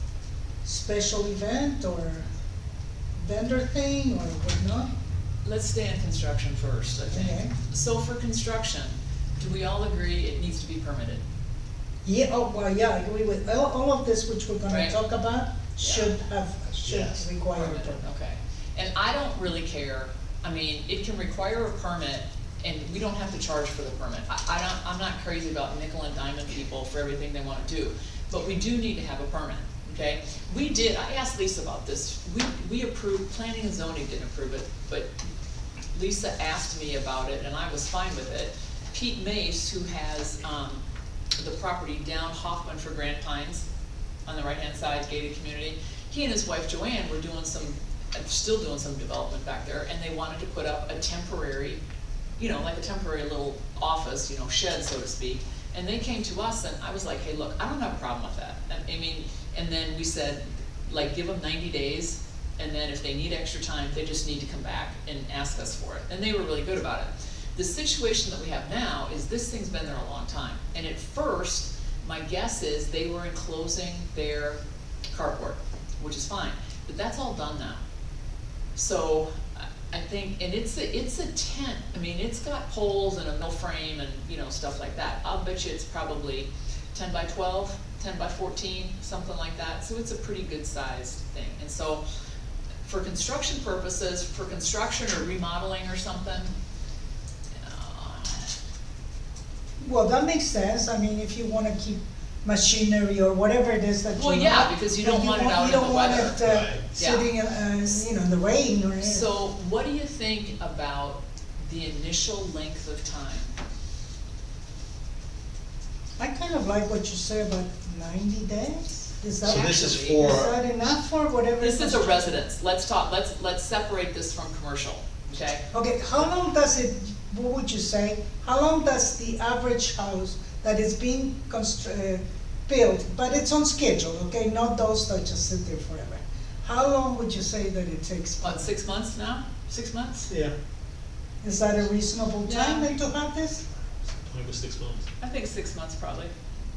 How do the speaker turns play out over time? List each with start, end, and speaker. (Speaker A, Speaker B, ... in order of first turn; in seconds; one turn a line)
Speaker A: 0.6-2.3
Speaker A: 3.2-4.9
Speaker B: 5.4-11.2
Speaker A: 7.1-7.5
Speaker A: 12.1-18.0
Speaker B: 14.7-15.0
Speaker B: 15.8-16.2
Speaker C: 16.8-17.3
Speaker B: 17.5-35.1
Speaker B: 35.9-40.8
Speaker B: 41.4-43.7
Speaker B: 44.3-51.8
Speaker B: 52.4-77.8
Speaker B: 78.8-92.0
Speaker B: 92.8-96.5
Speaker B: 97.5-98.5
Speaker A: 99.8-109.3
Speaker B: 104.2-107.3
Speaker C: 106.4-106.8
Speaker B: 109.0-113.5
Speaker A: 116.2-122.4
Speaker C: 119.4-120.5
Speaker B: 119.4-120.4
Speaker B: 121.6-125.6
Speaker A: 125.7-138.7
Speaker B: 138.4-140.3
Speaker A: 141.4-143.7
Speaker B: 142.4-143.0
Speaker C: 144.2-145.1
Speaker B: 145.2-146.3